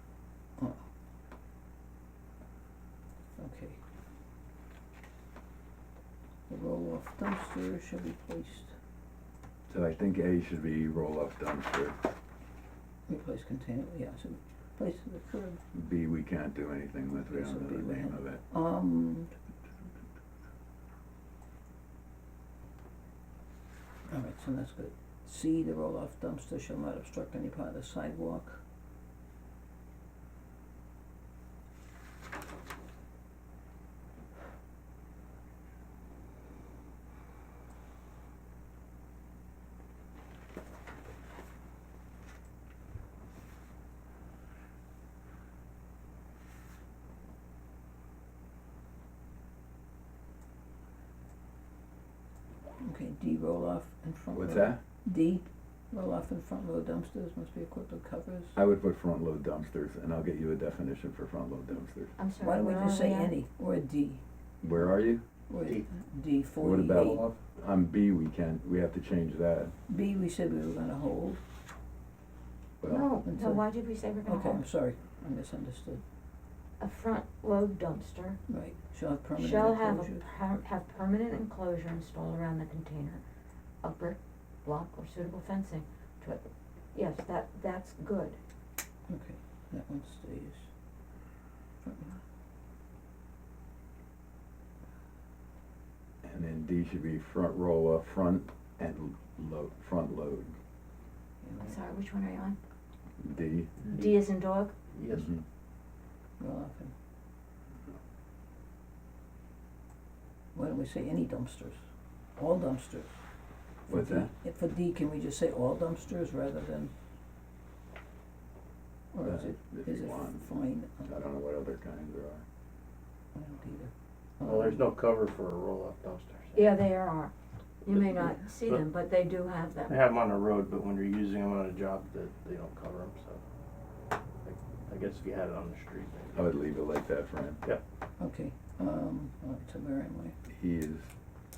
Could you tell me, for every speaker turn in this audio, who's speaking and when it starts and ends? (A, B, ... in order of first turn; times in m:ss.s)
0:03.4-0:03.8 A
0:06.5-0:08.7 A
0:09.7-0:12.0 B
0:13.1-0:15.6 A
0:15.7-0:18.4 B
0:17.2-0:19.3 A
0:24.1-0:28.6 A
0:52.8-0:58.6 A
0:54.3-0:54.8 B
0:58.5-1:02.1 B
1:02.2-1:03.3 C
1:02.4-1:04.2 A
1:04.6-1:05.2 B
1:05.5-1:07.2 A
1:06.6-1:09.7 B
1:09.9-1:11.4 A
1:12.8-1:13.1 B
1:12.8-1:14.6 C
1:13.2-1:13.6 A
1:14.2-1:16.0 A
1:16.8-1:18.4 C
1:18.5-1:20.2 A
1:19.3-1:23.2 C
1:23.8-1:28.4 C
1:29.1-1:30.7 A
1:31.8-1:32.2 A
1:36.2-1:40.5 B
1:41.4-1:41.8 A
1:41.6-1:42.6 C
1:43.2-1:43.7 B
1:43.8-1:44.1 D
1:43.9-1:44.7 C
1:44.9-1:45.3 D
1:45.1-1:45.4 B
1:46.4-1:46.9 A
1:50.5-1:51.8 A
1:52.4-1:53.1 A
1:53.9-1:56.9 A
1:53.9-1:54.3 B
1:59.1-2:01.1 A
1:59.2-2:00.5 B
2:01.0-2:02.4 B
2:03.3-2:04.8 A
2:04.4-2:06.7 D
2:06.5-2:07.3 C
2:07.8-2:10.0 C
2:07.9-2:08.8 D
2:09.9-2:13.4 D
2:14.4-2:16.5 D
2:16.3-2:17.6 B
2:18.2-2:20.3 A
2:20.5-2:21.1 B